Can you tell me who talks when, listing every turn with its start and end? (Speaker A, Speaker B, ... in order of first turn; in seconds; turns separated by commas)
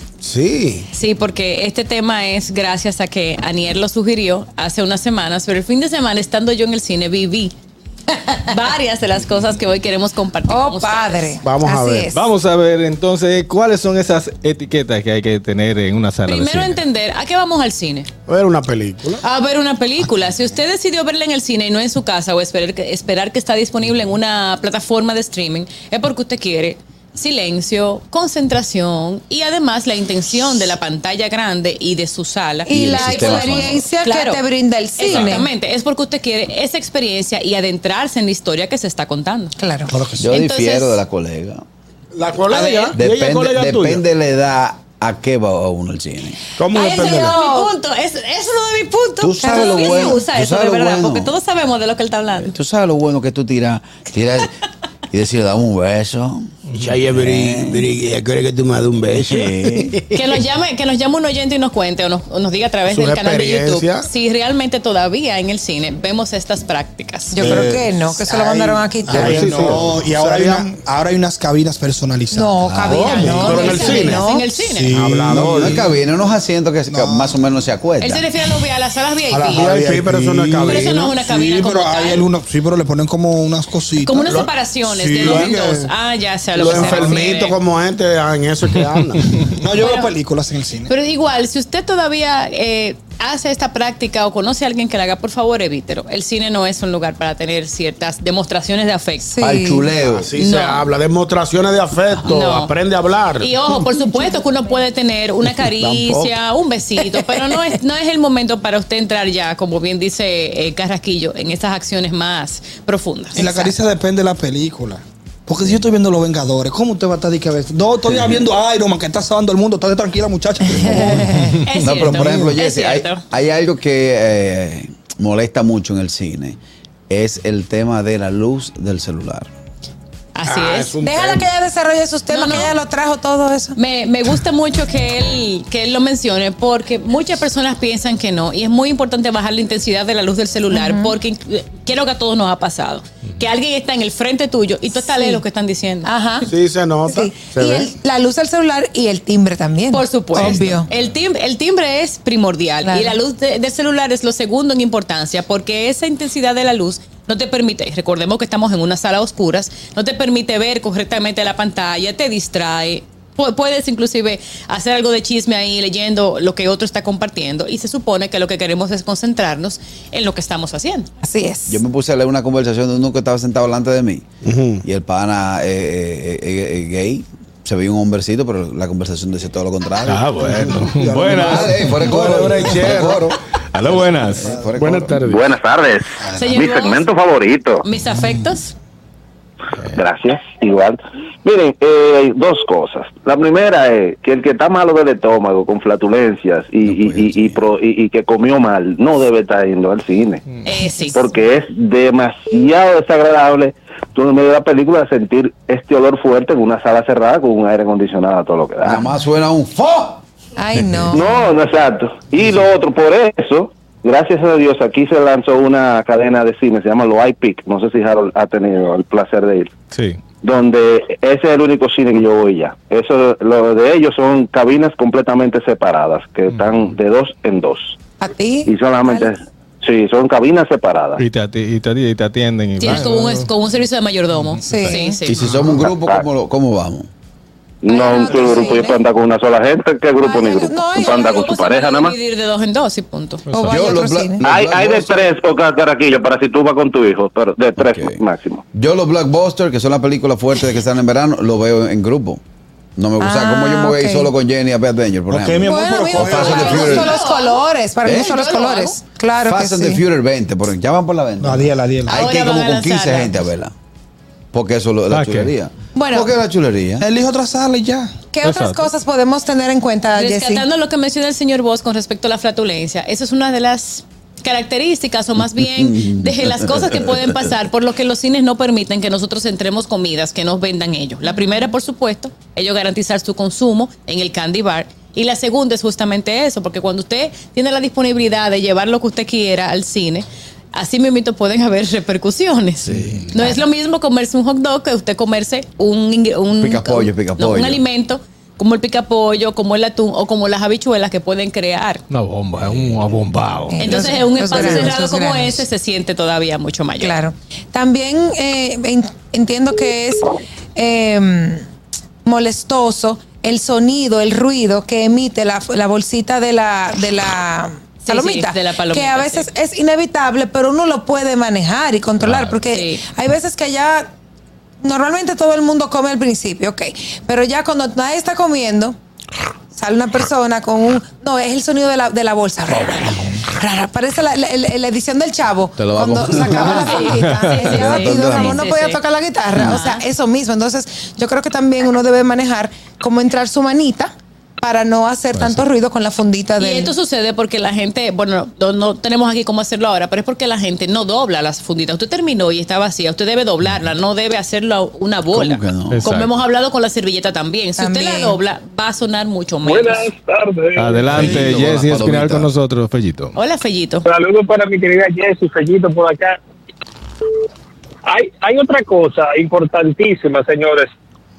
Speaker A: 0.2-0.9, Speaker B: 0.9-7.5, Speaker B: 8.4-11.3, Speaker C: 10.5-12.2, Speaker A: 11.4-12.1, Speaker D: 12.1-16.8, Speaker B: 16.2-18.1, Speaker A: 18.3-19.2, Speaker B: 19.2-34.4, Speaker C: 32.6-35.5, Speaker E: 32.7-33.9, Speaker B: 35.0-39.5, Speaker C: 39.6-39.9, Speaker F: 39.9-40.2, Speaker E: 40.2-41.6, Speaker B: 40.3-41.0, Speaker A: 42.1-44.0, Speaker B: 42.5-43.0, Speaker E: 42.9-46.4, Speaker A: 46.6-47.4, Speaker C: 46.7-47.7, Speaker B: 46.7-52.5, Speaker E: 49.2-51.3, Speaker C: 49.4-50.2, Speaker E: 52.4-54.5, Speaker E: 55.1-56.5, Speaker A: 56.7-60.2, Speaker E: 57.1-57.9, Speaker E: 59.1-60.0, Speaker B: 60.1-67.4, Speaker A: 62.9-64.1, Speaker C: 67.3-69.8, Speaker A: 67.3-70.7, Speaker F: 68.3-72.6, Speaker D: 69.5-69.8, Speaker C: 72.3-74.5, Speaker E: 72.6-73.5, Speaker A: 72.8-74.2, Speaker B: 73.1-74.9, Speaker A: 74.8-75.9, Speaker F: 74.8-75.8, Speaker E: 75.3-78.2, Speaker F: 76.9-77.3, Speaker B: 78.0-79.7, Speaker F: 79.3-84.4, Speaker A: 79.4-81.1, Speaker B: 80.6-82.2, Speaker B: 84.0-87.5, Speaker A: 84.2-85.9, Speaker A: 86.5-89.5, Speaker F: 86.7-87.2, Speaker F: 89.5-90.9, Speaker B: 89.8-90.1, Speaker B: 90.8-99.3, Speaker C: 99.3-99.9, Speaker E: 99.4-100.3, Speaker A: 100.0-103.5, Speaker B: 100.4-100.8, Speaker B: 102.2-102.7, Speaker B: 103.4-113.7, Speaker A: 105.6-106.3, Speaker F: 113.3-121.4, Speaker C: 120.7-121.5, Speaker B: 121.4-123.2, Speaker E: 121.8-129.5, Speaker F: 122.1-122.5, Speaker B: 130.3-131.0, Speaker A: 130.5-131.5, Speaker C: 131.0-133.8, Speaker B: 132.3-132.7, Speaker B: 133.8-146.1, Speaker C: 140.7-141.1, Speaker C: 145.0-145.4, Speaker C: 146.1-146.5, Speaker A: 146.4-147.9, Speaker C: 147.0-150.9, Speaker B: 149.9-171.1, Speaker C: 152.8-153.2, Speaker C: 171.2-171.8, Speaker E: 171.7-174.2, Speaker A: 174.4-174.8, Speaker E: 174.8-185.2, Speaker D: 180.0-181.9, Speaker A: 180.5-183.4, Speaker D: 183.7-184.6, Speaker A: 184.6-185.5, Speaker G: 185.3-187.8, Speaker B: 186.3-187.1, Speaker B: 187.8-188.7, Speaker G: 189.9-200.4, Speaker E: 196.8-197.6, Speaker B: 200.6-201.2, Speaker G: 201.1-209.0, Speaker E: 208.8-210.2, Speaker C: 210.6-211.5, Speaker G: 211.1-219.7, Speaker D: 219.9-220.2, Speaker G: 220.4-228.0, Speaker D: 226.5-226.9, Speaker C: 228.2-229.3, Speaker G: 228.7-231.2, Speaker D: 231.2-233.5, Speaker B: 232.8-235.4, Speaker D: 234.4-235.0, Speaker C: 234.6-235.2, Speaker E: 235.3-237.1, Speaker G: 235.8-236.2, Speaker G: 237.8-242.1, Speaker C: 237.9-239.0, Speaker C: 240.2-241.4, Speaker B: 241.0-243.4, Speaker D: 243.5-244.0, Speaker C: 243.5-244.4, Speaker E: 243.7-245.3, Speaker G: 244.4-248.6, Speaker E: 247.8-248.2, Speaker E: 248.7-252.4, Speaker E: 253.0-257.2, Speaker C: 253.2-254.3, Speaker F: 255.3-256.9, Speaker A: 255.6-256.9, Speaker C: 255.6-260.0, Speaker B: 256.4-259.0, Speaker E: 258.0-258.3, Speaker E: 259.4-263.7, Speaker F: 261.4-262.2, Speaker B: 262.1-263.4, Speaker E: 264.5-267.0, Speaker D: 265.1-265.5, Speaker C: 265.9-266.3, Speaker F: 267.0-268.1, Speaker C: 268.3-270.6, Speaker D: 268.4-268.9, Speaker B: 270.1-302.0, Speaker E: 275.4-277.4, Speaker C: 281.3-281.6, Speaker D: 292.9-293.3, Speaker C: 293.3-293.6, Speaker E: 296.6-297.8, Speaker D: 302.1-304.1, Speaker C: 303.7-305.6, Speaker B: 303.8-307.2, Speaker C: 307.0-311.6, Speaker C: 312.2-324.1, Speaker B: 318.0-319.5, Speaker D: 322.2-322.6, Speaker B: 322.7-323.0, Speaker C: 324.8-328.9, Speaker C: 329.7-346.9, Speaker E: 335.8-337.0, Speaker B: 336.6-339.0, Speaker D: 337.2-337.6, Speaker E: 337.6-338.7, Speaker E: 339.5-339.8, Speaker B: 339.5-340.0, Speaker D: 345.3-345.6, Speaker B: 346.6-360.1, Speaker E: 355.3-356.0, Speaker D: 355.9-356.3, Speaker C: 357.8-358.4, Speaker H: 359.6-361.3, Speaker D: 360.7-363.4, Speaker E: 361.1-362.5, Speaker B: 363.3-364.1, Speaker H: 364.0-366.4, Speaker H: 368.1-370.9